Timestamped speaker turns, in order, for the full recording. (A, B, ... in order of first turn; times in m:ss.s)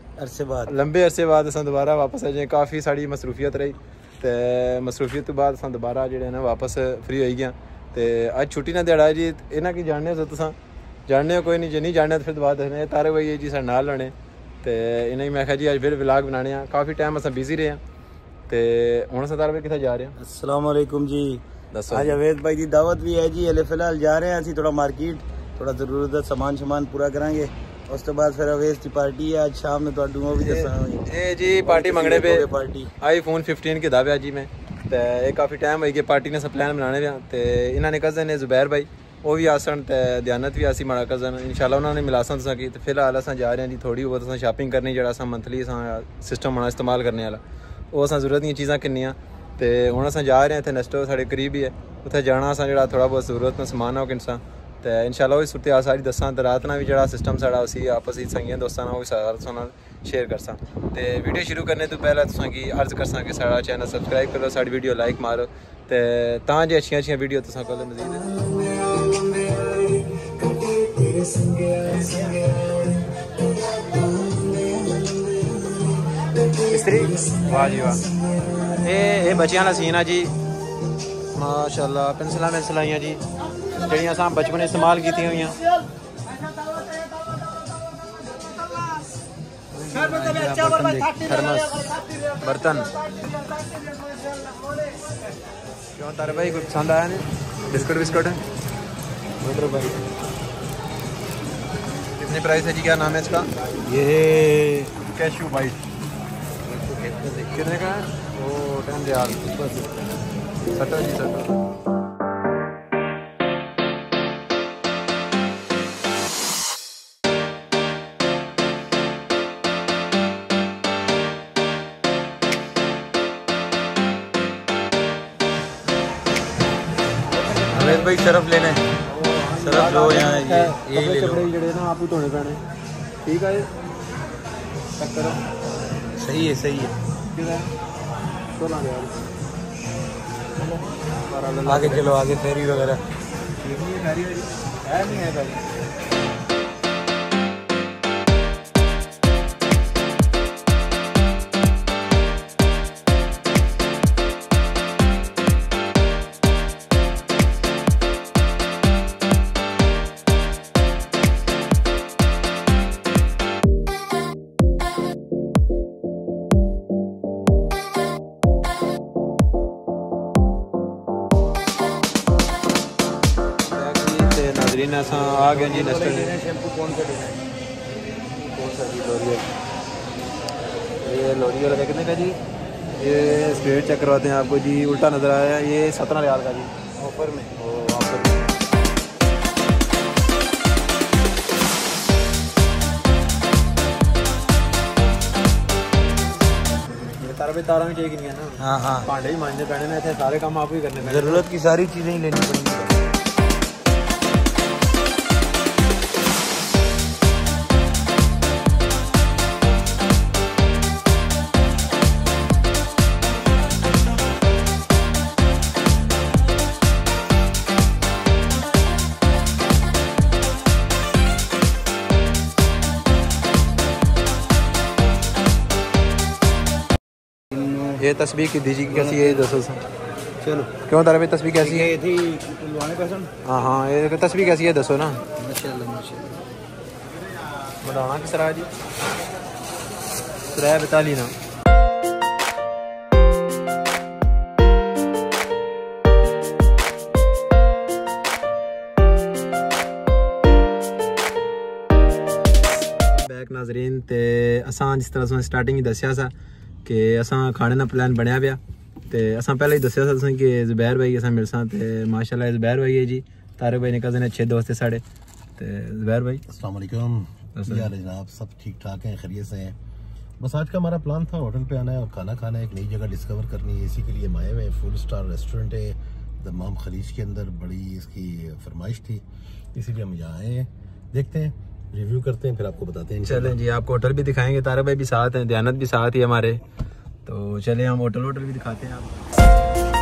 0:00.2-0:00.7 A
0:00.7-0:10.6 B
0:11.1-0:17.8 B
0:18.5-0:20.2 B
0:20.2-0:31.1 A
0:21.7-0:22.2 B
0:30.4-0:32.5 B
0:31.6-0:32.9 A
0:33.0-0:47.4 B
0:47.9-1:08.6 B
1:11.1-1:12.6 B
1:16.6-1:18.1 B
1:18.7-1:20.3 B
1:21.3-1:23.2 B
1:23.8-1:25.6 B
1:29.8-1:31.3 A
1:30.2-1:32.9 B
1:36.0-1:38.4 B
1:39.4-1:40.0 B
1:42.2-1:43.5 B
1:43.8-1:44.9 A
1:45.0-1:45.8 B
1:46.7-1:47.5 A
1:47.5-1:49.9 B
1:50.7-1:51.6 B
2:07.5-2:08.9 A
2:07.8-2:08.1 B
2:09.0-2:12.6 B
2:09.6-2:11.5 A
2:13.2-2:13.7 B
2:15.0-2:15.4 B
2:16.2-2:17.0 A
2:17.3-2:17.7 B
2:18.5-2:19.2 B
2:20.6-2:22.1 B
2:21.6-2:23.0 A
2:23.6-2:25.7 B
2:53.6-2:56.4 B
2:55.4-2:57.4 A
2:58.4-2:59.5 B
3:01.0-3:02.4 B
3:03.0-3:06.7 B
3:07.0-3:07.5 A
3:07.6-3:08.4 B
3:16.9-3:21.4 B
3:18.6-3:19.1 A
3:21.0-3:22.9 A
3:47.5-3:48.0 A
3:47.9-3:49.8 B
3:48.9-3:49.5 A
3:50.4-3:50.7 A
3:50.8-3:51.9 B
3:51.6-3:53.3 A
3:53.4-3:55.2 B
3:55.4-3:56.3 A
3:57.8-3:58.7 B
4:00.5-4:01.3 B
4:13.0-4:16.3 B
4:16.8-4:25.0 B
4:25.6-4:26.4 B
4:26.5-4:29.8 C
4:27.6-4:27.9 B
4:30.4-4:39.2 C
4:39.8-4:43.6 C
4:43.2-4:46.6 B
4:47.2-4:49.2 B